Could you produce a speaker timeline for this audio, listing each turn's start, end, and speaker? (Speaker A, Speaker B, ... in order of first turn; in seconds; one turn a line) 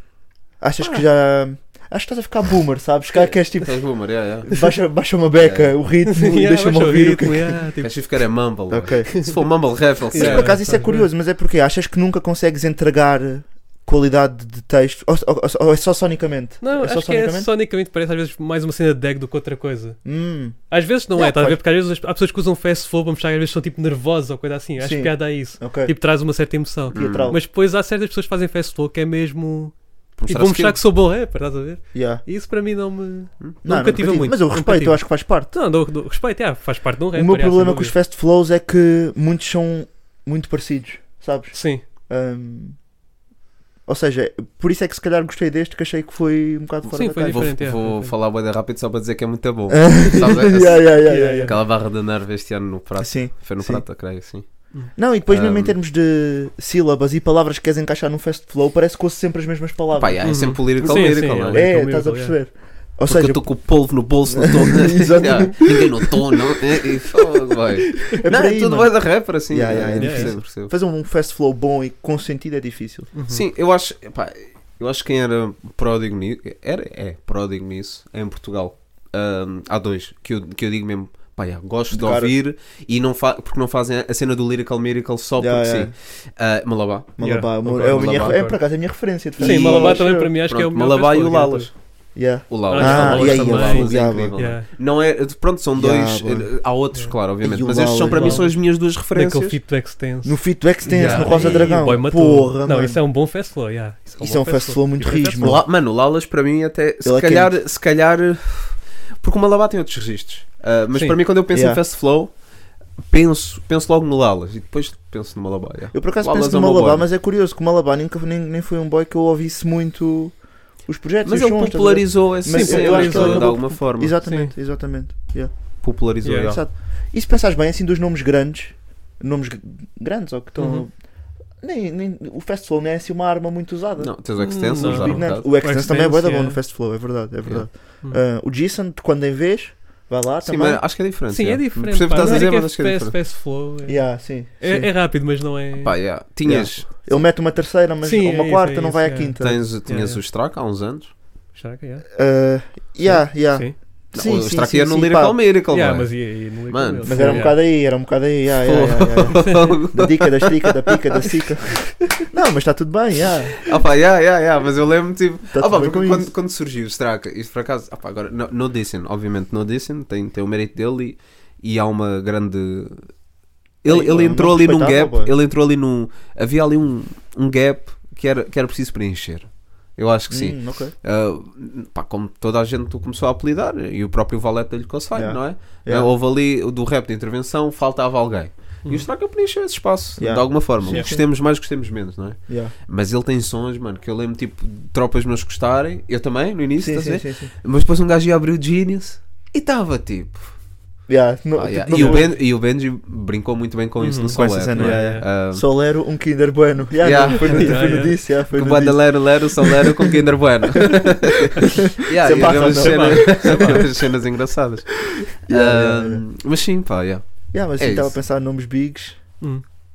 Speaker A: 0.6-7.6
Speaker B: 3.1-4.6
Speaker B: 5.4-5.7
Speaker C: 6.1-8.1
Speaker B: 7.8-10.6
Speaker A: 8.7-9.4
Speaker C: 10.1-11.1
Speaker A: 10.1-17.5
Speaker C: 16.6-20.0
Speaker A: 20.0-20.6
Speaker C: 20.7-37.9
Speaker A: 21.1-21.6
Speaker A: 24.8-25.9
Speaker A: 26.9-27.4
Speaker B: 26.9-27.3
Speaker B: 30.2-30.8
Speaker A: 31.9-32.2
Speaker A: 33.6-35.5
Speaker A: 37.1-42.8
Speaker C: 41.5-41.8
Speaker A: 43.9-47.5
Speaker C: 46.9-48.1
Speaker B: 47.1-54.6
Speaker A: 49.7-51.6
Speaker C: 51.0-51.5
Speaker A: 53.0-53.8
Speaker A: 54.9-66.1
Speaker B: 55.3-55.8
Speaker B: 59.9-61.7
Speaker C: 60.2-62.4
Speaker B: 63.0-70.7
Speaker A: 68.1-73.1
Speaker C: 70.0-70.3
Speaker C: 73.1-73.4
Speaker B: 73.3-88.5
Speaker A: 81.9-82.3
Speaker A: 85.4-85.9
Speaker A: 87.2-90.3
Speaker C: 87.2-88.6
Speaker C: 89.4-91.7
Speaker B: 89.4-91.9
Speaker A: 92.1-94.4
Speaker B: 92.5-99.6
Speaker C: 92.7-94.7
Speaker A: 95.7-96.6
Speaker A: 97.4-98.5
Speaker C: 98.1-105.5
Speaker A: 100.2-103.0
Speaker B: 100.9-101.7
Speaker A: 104.2-105.6
Speaker B: 105.4-112.4
Speaker A: 107.0-107.5
Speaker C: 110.9-111.2
Speaker A: 111.5-111.8
Speaker B: 113.1-117.1
Speaker A: 115.9-130.9
Speaker B: 121.2-124.2
Speaker C: 122.5-124.5
Speaker B: 125.8-126.6
Speaker C: 126.2-126.5
Speaker C: 130.6-130.9
Speaker A: 131.6-140.9
Speaker B: 134.0-135.5
Speaker C: 134.4-136.6
Speaker B: 140.4-143.2
Speaker C: 141.3-146.0
Speaker A: 142.2-142.4
Speaker A: 143.8-144.9
Speaker B: 145.8-147.0
Speaker A: 146.4-149.6
Speaker C: 148.0-150.2
Speaker B: 149.4-151.1
Speaker C: 151.5-152.1
Speaker A: 152.1-155.4
Speaker C: 153.0-153.7
Speaker B: 154.1-157.6
Speaker C: 155.7-157.6
Speaker A: 157.0-163.6
Speaker B: 158.6-161.2
Speaker C: 159.4-159.8
Speaker B: 163.6-173.1
Speaker A: 165.5-166.3
Speaker B: 173.8-200.6
Speaker A: 173.8-175.3
Speaker A: 180.3-180.9
Speaker A: 185.1-186.1
Speaker A: 190.2-191.2
Speaker C: 190.9-191.1
Speaker A: 192.5-192.7
Speaker A: 196.8-197.5
Speaker A: 201.1-202.4
Speaker B: 201.6-205.6
Speaker C: 201.9-202.3
Speaker C: 204.0-205.2
Speaker A: 204.3-209.8
Speaker B: 207.0-218.2
Speaker C: 207.4-208.2
Speaker A: 212.1-213.9
Speaker C: 212.3-213.8
Speaker A: 215.4-216.2
Speaker A: 217.5-219.2